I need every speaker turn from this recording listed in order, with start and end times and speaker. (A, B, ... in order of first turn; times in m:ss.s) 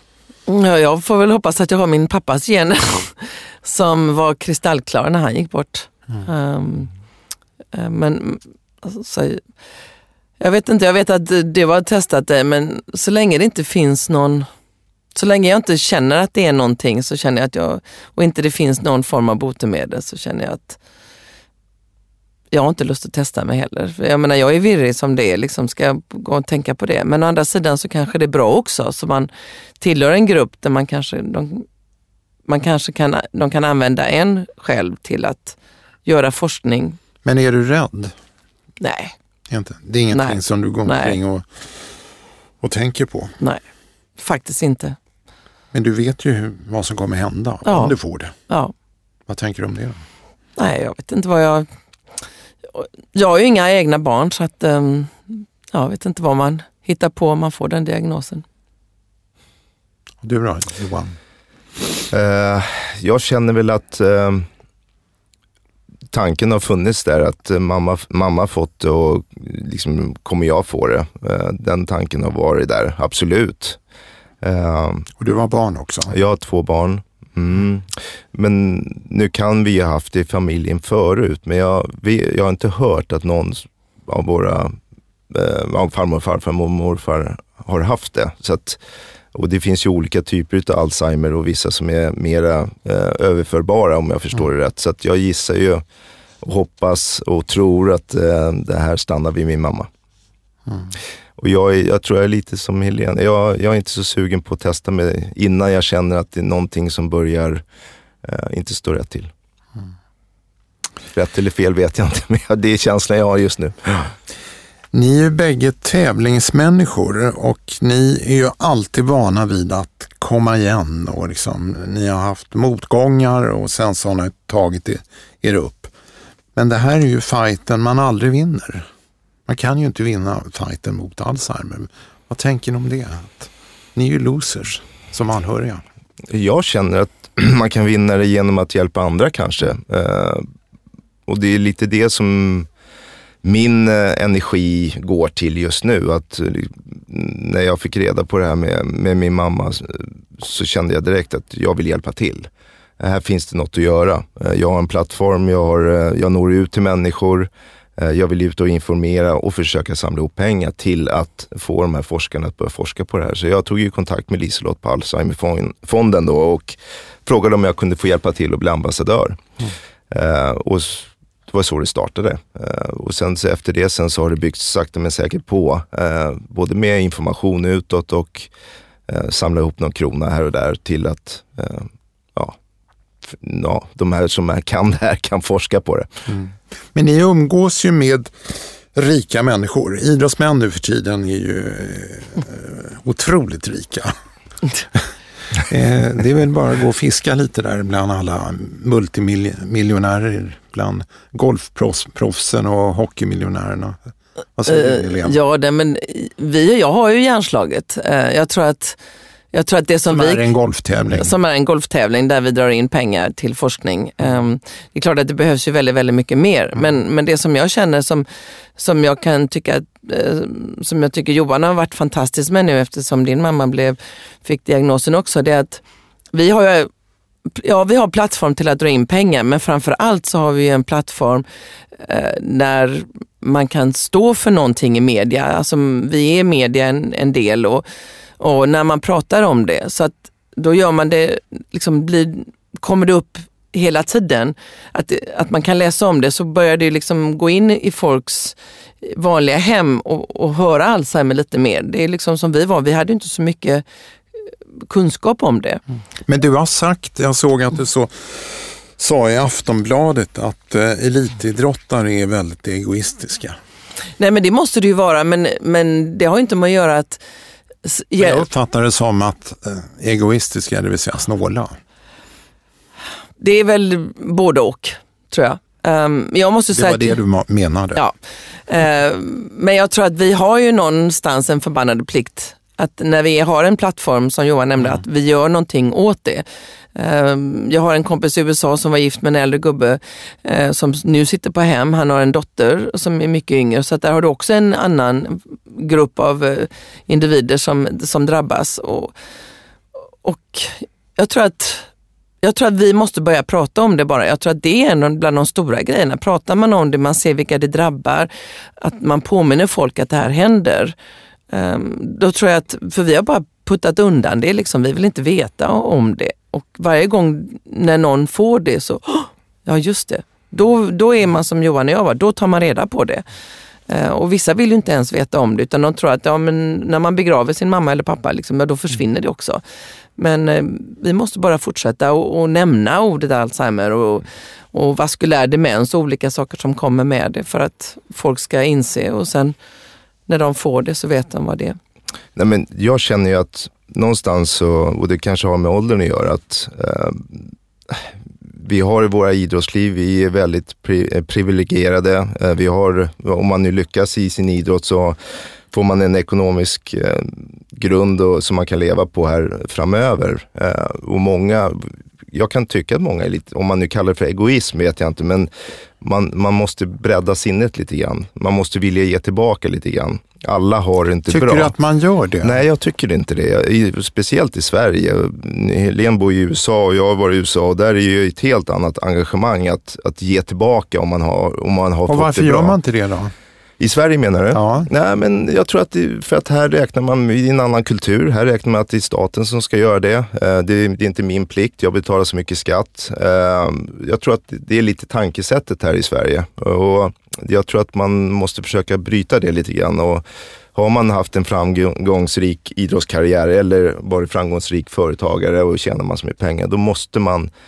0:00.5-0:06.9 A
0:07.7-0:09.4 A
0:10.4-0:14.5 A
0:15.1-0:20.8 A
0:22.5-0:29.3 A
0:29.8-0:31.7 A
0:32.5-0:37.0 A
0:37.2-0:38.1 B
0:38.8-0:39.2 A
0:39.5-0:41.9 B
0:40.1-0:41.2 A
0:42.6-0:43.4 B
0:44.2-0:45.0 A
0:45.7-0:48.3 B
0:47.7-0:48.0 A
0:49.3-0:50.0 B
0:50.6-0:51.7 A
0:52.7-0:58.4 A
1:00.2-1:01.2 B
1:02.1-1:04.5 C
1:06.1-1:13.8 C
1:14.4-1:15.1 C
1:15.2-1:16.1 B
1:16.1-1:24.8 C
1:25.3-1:28.8 C
1:29.3-1:35.8 C
1:36.4-1:39.9 C
1:41.4-1:47.6 C
1:48.2-1:49.3 C
1:51.1-1:54.1 C
1:54.9-2:05.9 B
2:06.6-2:08.9 B
2:09.5-2:15.8 B
2:16.3-2:20.5 C
2:21.3-2:22.7 C
2:23.4-2:32.5 C
2:33.0-2:49.5 C
2:50.1-2:58.5 C
2:59.1-3:02.6 C
3:03.3-3:06.1 C
3:06.3-3:14.2 B
3:15.6-3:24.0 B
3:24.6-3:25.4 B
3:24.7-3:29.0 A
3:29.5-3:30.5 A
3:30.1-3:31.4 B
3:31.2-3:38.3 A
3:38.8-3:45.8 A
3:46.3-3:46.9 A
3:47.5-3:51.4 A
3:52.0-3:57.9 A
3:58.4-4:13.8 A
4:14.4-4:15.8 A
4:16.3-4:23.6 B
4:24.2-4:27.2 A
4:27.8-4:28.4 A
4:28.2-4:31.8 B
4:33.4-4:37.2 A
4:36.7-4:38.1 B
4:38.7-4:59.1 A
5:00.2-5:01.9 A
5:02.4-5:11.0 A
5:11.5-5:23.3 A
5:23.9-5:29.6 A
5:30.2-5:39.6 A
5:40.3-5:41.8 A
5:42.4-5:55.2 C
5:55.7-6:11.7 C
6:11.3-6:12.6 B
6:12.4-6:22.8 C
6:22.1-6:23.3 B
6:23.8-6:47.5 C
6:24.5-6:24.9 B